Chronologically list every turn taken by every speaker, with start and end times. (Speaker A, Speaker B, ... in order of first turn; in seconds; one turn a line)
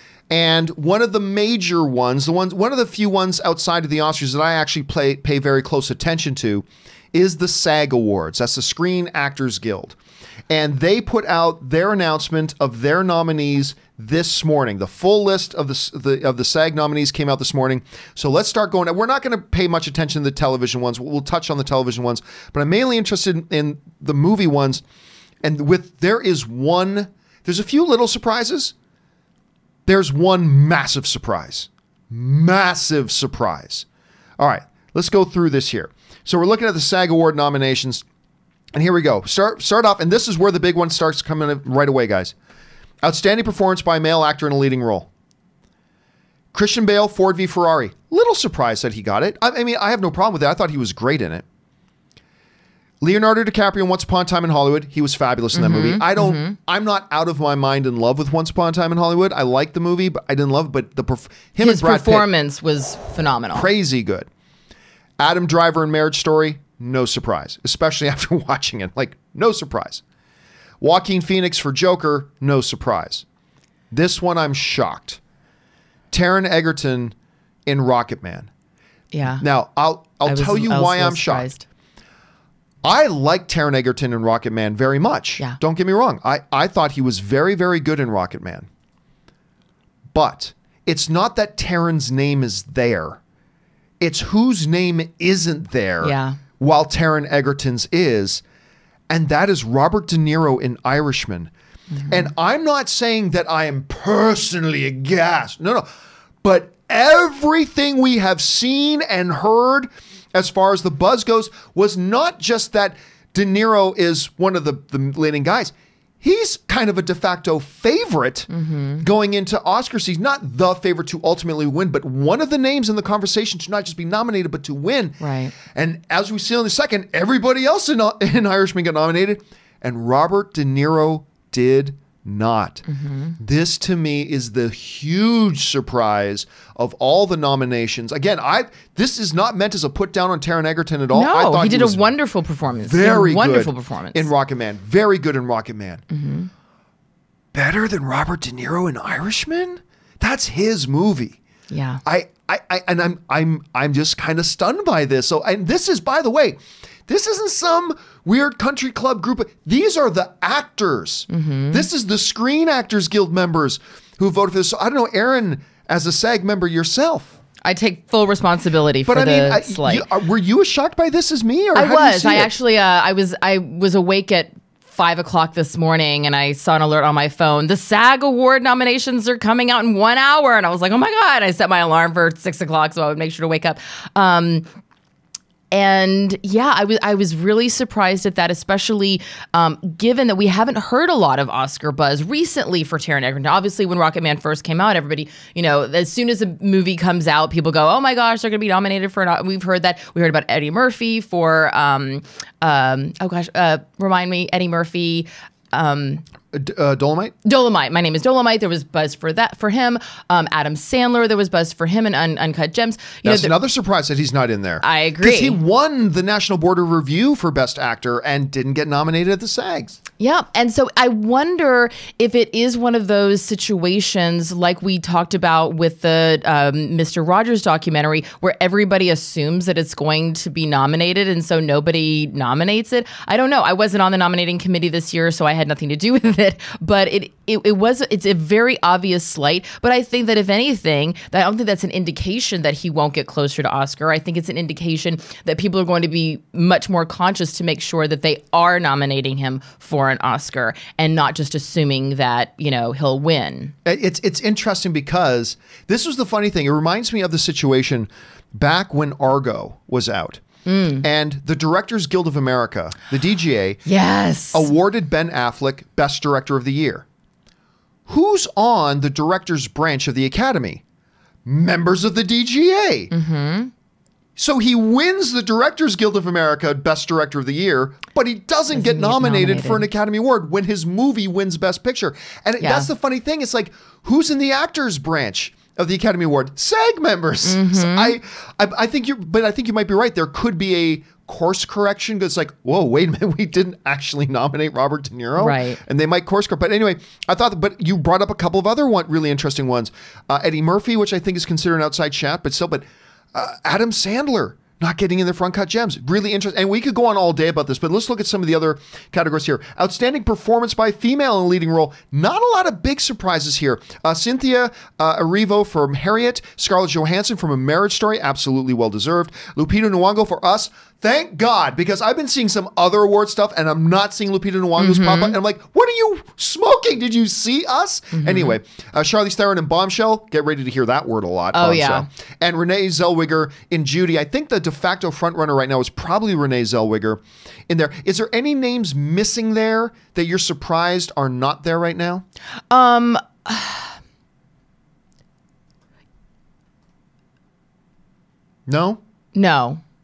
Speaker A: 0.3-10.0
Speaker A: 10.5-24.8
Speaker A: 25.4-28.7
Speaker A: 29.9-33.9
Speaker A: 34.4-38.0
Speaker A: 38.7-42.3
Speaker A: 43.0-45.1
Speaker A: 46.5-51.5
Speaker A: 53.0-62.3
Speaker B: 55.5-56.5
Speaker B: 61.6-63.7
Speaker A: 63.5-64.3
Speaker A: 65.2-70.0
Speaker A: 70.8-73.2
Speaker A: 73.9-75.2
Speaker A: 76.1-77.1
Speaker A: 77.7-78.5
Speaker B: 79.1-79.5
Speaker A: 79.4-81.5
Speaker B: 80.2-81.7
Speaker A: 82.8-88.7
Speaker A: 90.1-93.2
Speaker A: 94.0-98.4
Speaker B: 96.0-96.4
Speaker A: 99.1-101.5
Speaker B: 101.9-102.3
Speaker A: 102.1-105.9
Speaker A: 106.4-118.5
Speaker B: 118.5-119.1
Speaker A: 119.0-132.8
Speaker B: 125.2-125.5
Speaker B: 132.9-133.4
Speaker A: 133.4-142.1
Speaker B: 141.1-144.3
Speaker A: 142.8-146.0
Speaker B: 146.1-146.5
Speaker A: 147.5-151.4
Speaker B: 151.7-152.0
Speaker A: 152.0-167.3
Speaker B: 161.3-161.9
Speaker B: 167.6-170.1
Speaker A: 169.1-172.5
Speaker B: 171.7-184.7
Speaker B: 185.7-206.2
Speaker A: 206.5-207.3
Speaker B: 207.4-213.5
Speaker A: 213.2-220.0
Speaker B: 214.8-215.6
Speaker B: 220.2-253.7
Speaker A: 253.8-260.4
Speaker B: 260.7-261.0
Speaker A: 261.0-263.8
Speaker B: 263.9-264.7
Speaker A: 264.5-267.1
Speaker A: 268.1-270.8
Speaker A: 271.4-273.1
Speaker B: 273.1-273.7
Speaker A: 274.4-342.2
Speaker B: 278.7-279.9
Speaker B: 282.6-282.9
Speaker B: 287.4-288.2
Speaker B: 295.4-295.8
Speaker B: 324.8-325.4
Speaker B: 328.1-328.5
Speaker B: 331.5-332.1
Speaker B: 342.7-344.0
Speaker A: 348.7-349.0
Speaker B: 349.4-349.8